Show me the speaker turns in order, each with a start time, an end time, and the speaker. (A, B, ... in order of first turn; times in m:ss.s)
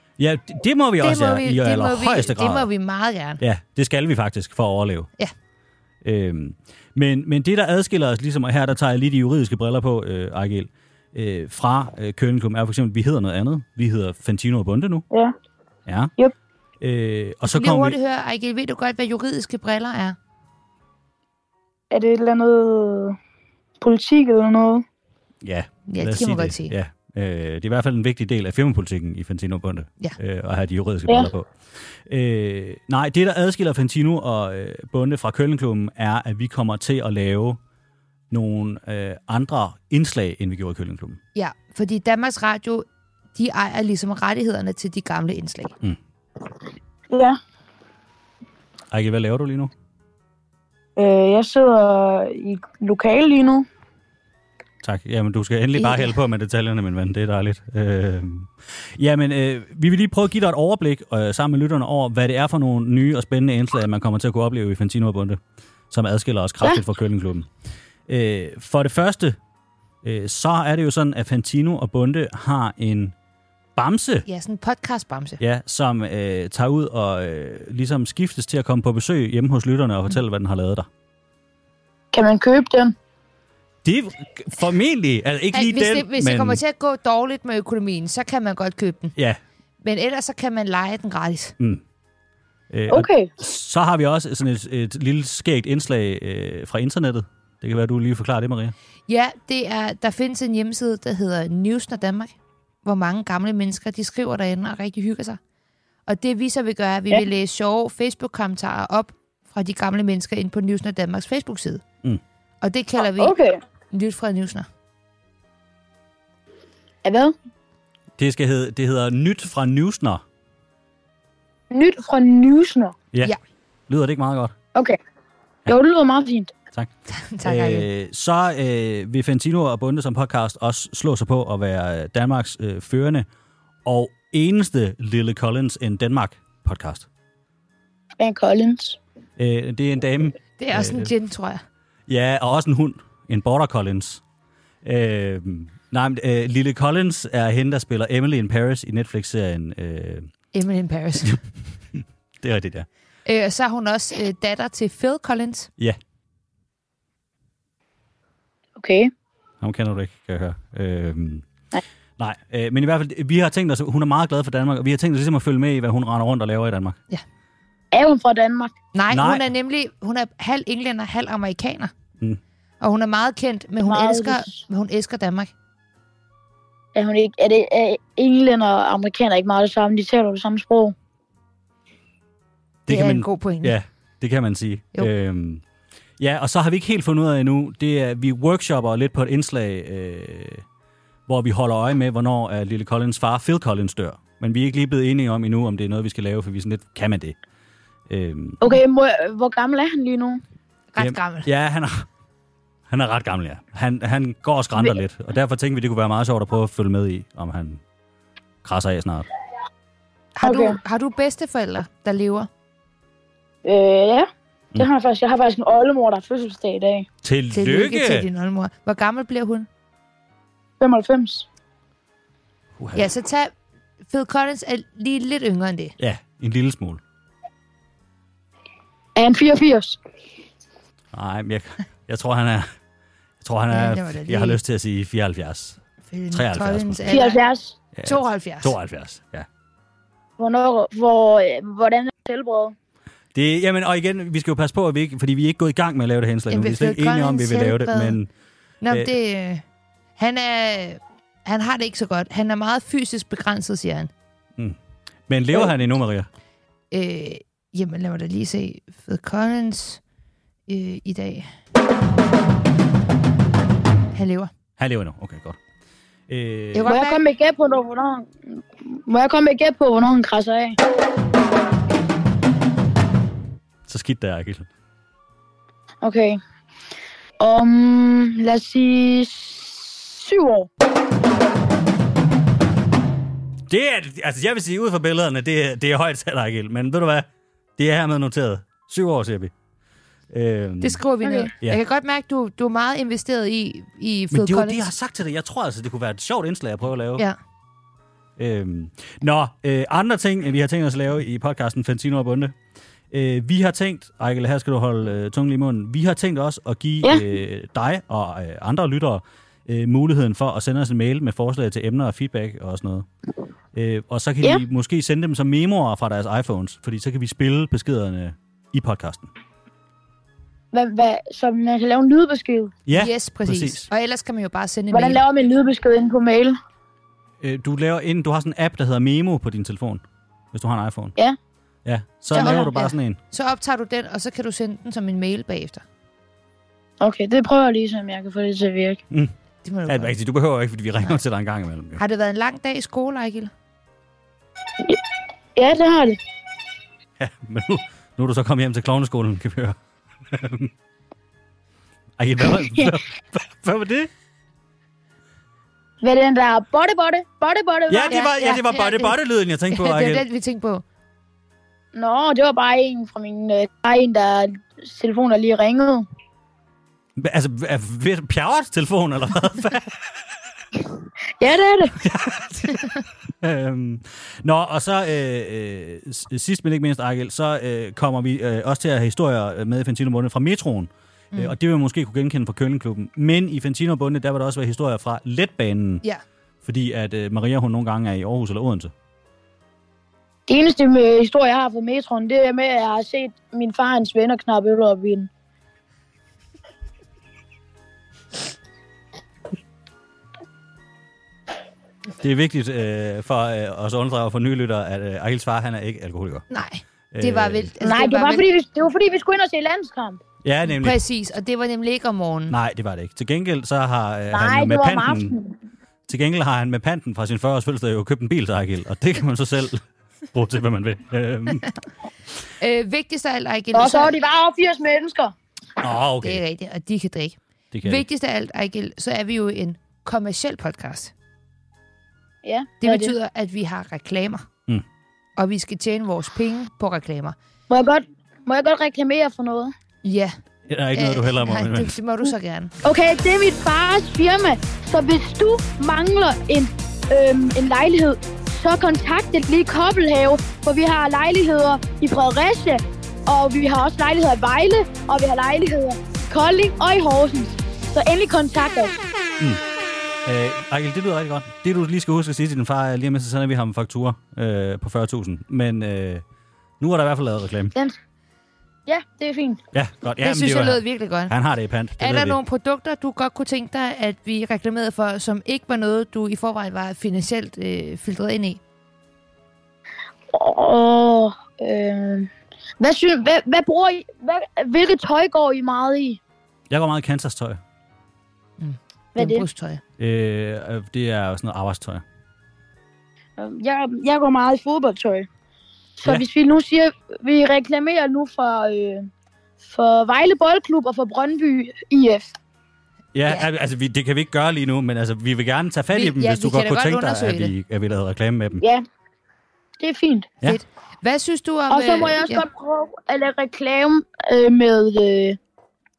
0:00.2-0:02.7 A
0:01.0-0:03.4 B
0:03.4-0:05.1 A
0:06.0-0:15.0 A
0:15.9-0:16.1 A
0:16.8-0:18.0 A
0:17.4-0:20.2 B
0:21.9-0:23.2 C
0:23.8-0:24.8 C
0:25.4-0:31.5 A
0:25.9-0:26.8 B
0:32.0-0:37.6 A
0:38.3-0:41.2 A
0:41.3-0:45.8 B
0:47.1-0:47.4 C
0:48.9-0:49.7 A
0:51.0-0:53.6 C
0:54.8-1:05.4 A
0:55.8-0:56.1 B
1:05.9-1:07.5 A
1:08.1-1:09.4 A
1:10.0-1:13.1 A
1:13.8-1:14.2 A
1:14.2-1:15.4 B
1:15.4-1:20.9 A
1:22.1-1:22.9 C
1:23.8-1:26.6 A
1:25.5-1:29.1 B
1:29.8-1:31.5 B
1:32.7-1:38.7 A
1:32.9-1:33.3 C
1:39.1-1:42.3 B
1:42.8-1:45.4 B
1:46.1-1:51.8 B
1:52.6-1:53.3 B
1:53.0-1:53.6 C
1:53.9-1:54.7 B
1:57.0-1:57.3 C
1:58.2-2:00.2 A
2:01.7-2:02.9 C
2:03.9-2:04.5 A
2:05.7-2:06.5 C
2:07.1-2:07.9 B
2:07.4-2:13.3 A
2:13.8-2:17.1 A
2:18.2-2:19.0 C
2:19.4-2:21.1 A
2:20.6-2:21.6 B
2:22.1-2:24.2 A
2:24.8-2:30.3 A
2:30.5-2:31.4 B
2:31.9-2:32.9 A
2:33.2-2:35.7 B
2:38.8-2:39.1 C
2:39.6-2:41.4 A
2:42.2-2:47.0 A
2:47.9-2:48.8 C
2:48.9-2:51.9 B
2:49.1-2:49.5 A
2:52.8-2:55.5 B
2:53.8-2:54.6 C
2:56.9-3:00.9 C
3:02.8-3:05.6 A
3:02.9-3:03.8 B
3:06.2-3:10.6 A
3:11.3-3:17.4 A
3:18.1-3:18.8 A
3:18.6-3:20.4 C
3:20.9-3:21.5 B
3:21.0-3:22.0 A
3:22.9-3:27.8 A
3:28.6-3:29.3 A
3:30.4-3:32.5 B
3:30.4-3:30.8 C
3:33.6-3:37.1 C
3:37.2-3:38.3 A
3:37.5-3:39.7 B
3:40.8-3:41.4 C
3:42.8-3:43.1 A
3:42.9-3:43.5 B
3:44.1-3:46.0 B
3:46.0-3:47.0 A
3:49.2-3:50.0 C
3:51.1-3:52.7 A
3:53.4-3:55.8 A
3:53.7-3:54.6 B
3:56.0-3:57.4 B
3:56.3-3:57.2 A
3:57.1-3:57.8 C
3:57.9-3:59.5 A
3:58.0-3:58.8 B
4:00.4-4:02.8 C
4:03.3-4:08.3 A
4:06.5-4:08.2 B
4:08.8-4:09.6 B
4:10.2-4:14.1 B
4:15.3-4:16.3 A
4:16.9-4:20.0 B
4:20.7-4:21.5 B
4:24.1-4:24.5 B
4:24.8-4:25.6 A
4:26.3-4:26.9 A
4:26.7-4:27.2 B
4:26.9-4:28.3 C
4:28.9-4:30.8 C
4:33.9-4:34.7 A
4:36.0-4:36.4 C
4:37.4-4:40.7 C
4:43.7-4:49.5 A
4:50.3-4:51.0 A
4:50.8-4:54.9 B
4:51.2-4:51.5 C
4:54.3-4:57.2 A
4:58.4-5:02.6 A
5:03.1-5:13.1 A
5:13.7-5:19.3 A
5:20.7-5:22.8 C
5:22.8-5:23.9 A
5:22.9-5:25.2 B
5:24.9-5:26.6 C
5:27.4-5:31.2 A
5:31.8-5:33.2 A
5:32.3-5:35.8 B
5:37.0-5:39.0 C
5:39.6-5:40.1 B
5:39.9-5:42.0 A
5:42.0-5:43.5 B
5:45.6-5:46.2 C
5:47.2-5:49.8 A
5:50.3-5:50.7 A
5:52.2-5:54.1 A
5:56.0-5:58.2 C
5:57.9-6:00.2 A
5:58.1-5:59.2 B
5:59.7-6:00.8 B
6:02.0-6:06.0 C
6:07.2-6:10.0 A
6:11.4-6:12.0 C
6:12.0-6:26.0 A
6:26.6-6:28.9 A
6:30.5-6:35.3 C
6:42.2-6:46.4 A
6:46.5-6:48.4 B
6:47.1-6:47.7 A
6:47.8-6:50.2 C
6:50.4-6:51.0 A
6:50.7-6:52.6 B
6:52.5-6:55.4 A
6:54.3-6:55.6 C
6:56.1-7:01.7 A
7:02.6-7:04.1 B
7:03.7-7:05.3 C
7:05.8-7:06.4 A
7:06.2-7:11.1 B
7:07.7-7:08.0 A
7:12.4-7:13.1 C
7:12.8-7:14.5 B
7:15.4-7:17.4 B
7:17.7-7:19.7 C
7:20.0-7:20.4 B
7:20.7-7:22.0 A
7:20.9-7:22.7 B
7:22.8-7:39.0 C
7:40.2-7:46.2 A
7:46.8-7:47.7 A
7:48.9-7:49.6 C
7:49.7-7:52.4 A
7:50.2-7:51.3 B
7:52.0-7:58.6 B
8:00.3-8:02.3 C
8:02.8-8:06.2 C
8:06.7-8:07.6 A
8:08.6-8:09.8 B
8:09.1-8:09.4 C
8:10.0-8:12.0 A
8:13.4-8:15.3 C
8:16.0-8:19.1 C
8:19.6-8:22.3 C
8:23.1-8:28.6 A
8:25.9-8:27.5 B
8:29.8-8:30.3 C
8:30.4-8:32.4 B
8:31.7-8:35.4 C